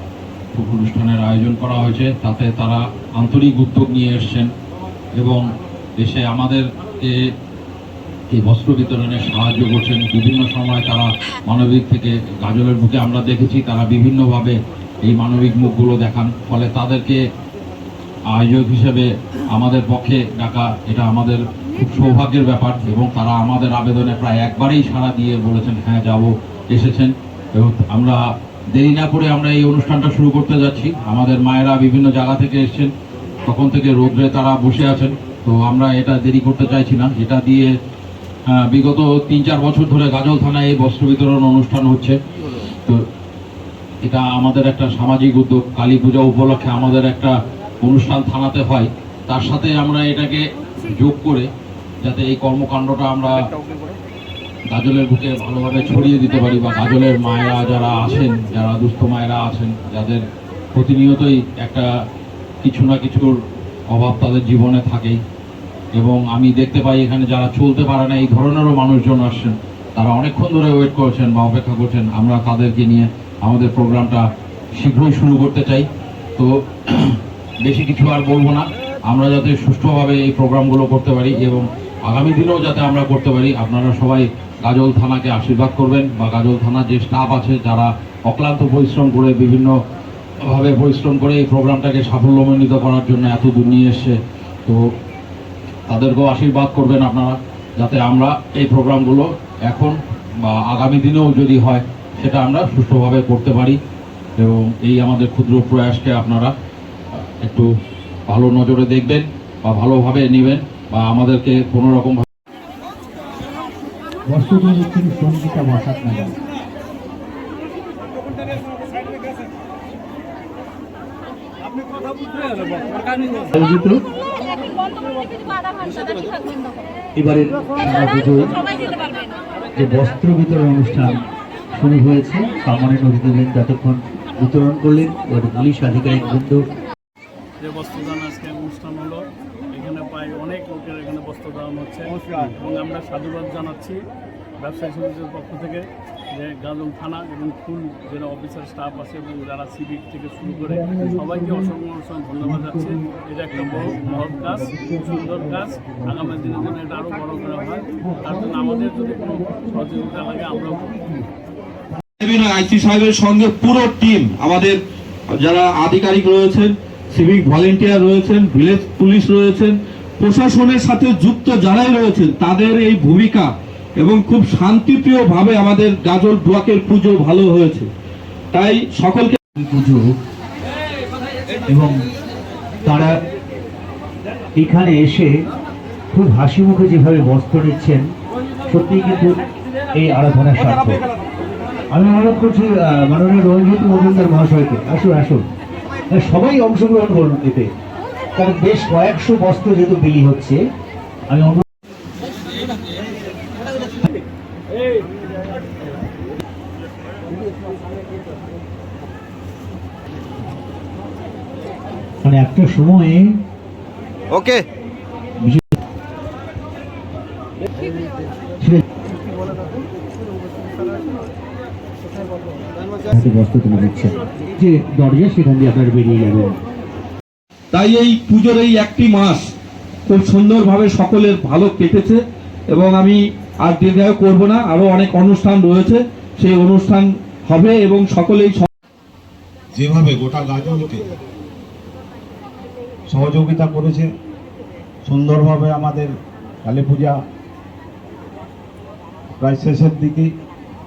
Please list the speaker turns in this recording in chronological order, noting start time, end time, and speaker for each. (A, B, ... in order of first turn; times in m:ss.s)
0:00.5-0:04.5 A
0:05.2-0:05.4 A
0:06.0-0:07.2 A
0:08.3-0:17.2 A
0:18.3-0:28.2 A
0:28.7-0:32.9 A
0:33.5-0:37.7 A
0:38.5-0:42.2 A
0:42.7-0:43.0 A
0:44.0-0:51.5 A
0:52.0-0:53.4 A
0:54.7-1:00.2 A
1:00.7-1:01.9 A
1:02.6-1:03.3 A
1:03.9-1:05.2 A
1:06.0-1:14.2 A
1:14.8-1:29.7 A
1:30.4-1:34.8 A
1:35.9-1:43.8 A
1:44.4-1:46.5 A
1:47.4-1:47.7 A
1:48.3-1:52.2 A
1:54.3-1:56.3 B
2:03.6-2:04.0 B
2:07.2-2:08.5 B
2:09.8-2:11.2 B
2:11.8-2:16.6 B
2:17.6-2:24.0 C
2:24.6-2:41.2 C
2:42.2-2:57.9 D
2:58.5-2:59.4 D
2:59.6-3:00.0 B
3:01.8-3:02.0 E
3:04.6-3:05.2 B
3:04.7-3:05.3 E
3:06.2-3:08.0 B
3:06.6-3:07.1 E
3:08.7-3:09.3 B
3:08.9-3:09.4 E
3:10.0-3:10.9 B
3:10.6-3:11.0 E
3:12.0-3:15.4 B
3:13.7-3:14.4 E
3:16.2-3:17.6 B
3:18.4-3:20.5 B
3:20.2-3:20.6 E
3:21.3-3:21.6 B
3:32.2-3:33.4 B
3:34.3-3:34.6 D
3:43.1-3:46.5 B
3:47.7-3:49.5 D
3:50.1-3:58.7 D
3:59.7-4:01.1 E
4:03.1-4:04.1 E
4:05.0-4:06.1 E
4:06.6-4:07.2 E
4:09.4-4:10.3 E